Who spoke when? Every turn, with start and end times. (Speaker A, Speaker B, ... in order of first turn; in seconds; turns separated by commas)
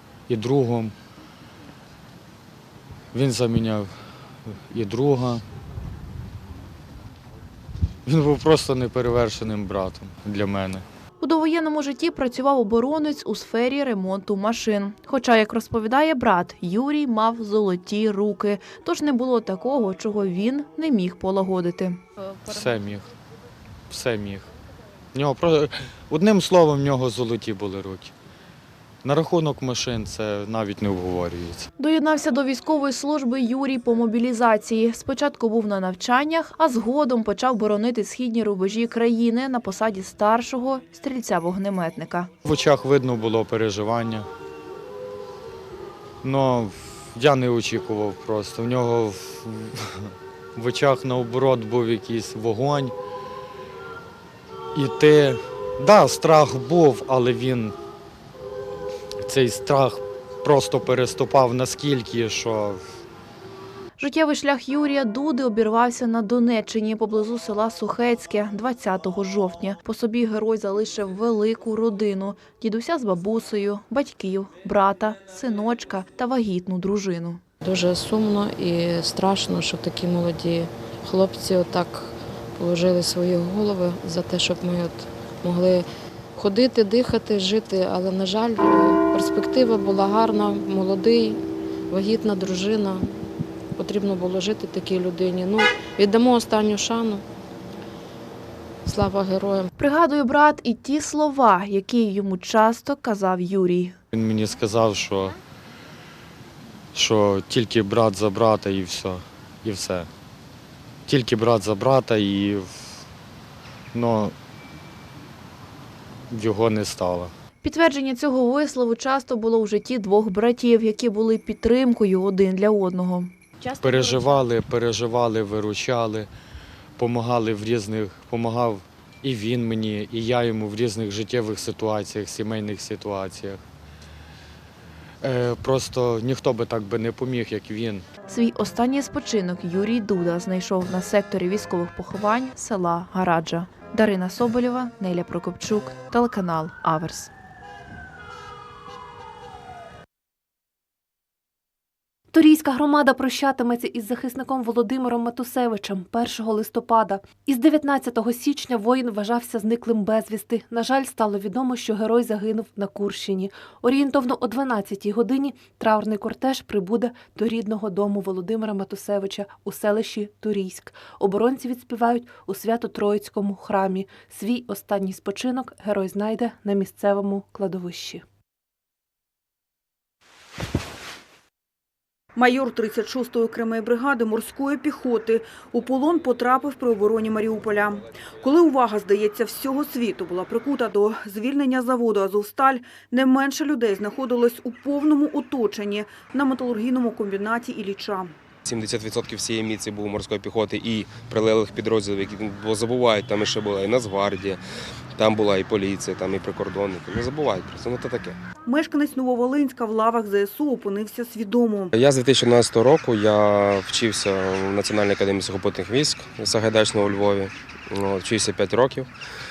Speaker A: 0.3-0.9, Speaker A: 3.1-3.9, Speaker A: 4.7-5.4, Speaker A: 8.1-10.8, Speaker B: 11.2-22.0, Speaker A: 22.4-23.1, Speaker A: 23.9-24.5, Speaker A: 25.1-28.1, Speaker A: 29.0-31.7, Speaker B: 31.8-42.3, Speaker A: 42.4-44.3, Speaker A: 46.2-52.9, Speaker A: 54.7-57.7, Speaker A: 59.2-62.8, Speaker B: 64.0-77.4, Speaker C: 77.6-93.1, Speaker C: 93.8-97.2, Speaker C: 98.8-99.7, Speaker B: 99.8-104.0, Speaker A: 104.1-105.3, Speaker A: 106.9-110.1, Speaker A: 111.1-113.0, Speaker A: 113.9-114.3, Speaker A: 116.3-117.3, Speaker B: 117.6-123.3, Speaker A: 123.8-126.3, Speaker A: 127.0-133.6, Speaker A: 135.2-138.0, Speaker B: 138.3-147.3, Speaker D: 152.3-178.2, Speaker E: 182.3-198.3, Speaker F: 198.7-204.6, Speaker F: 205.2-208.4, Speaker E: 208.7-211.9, Speaker F: 211.9-219.1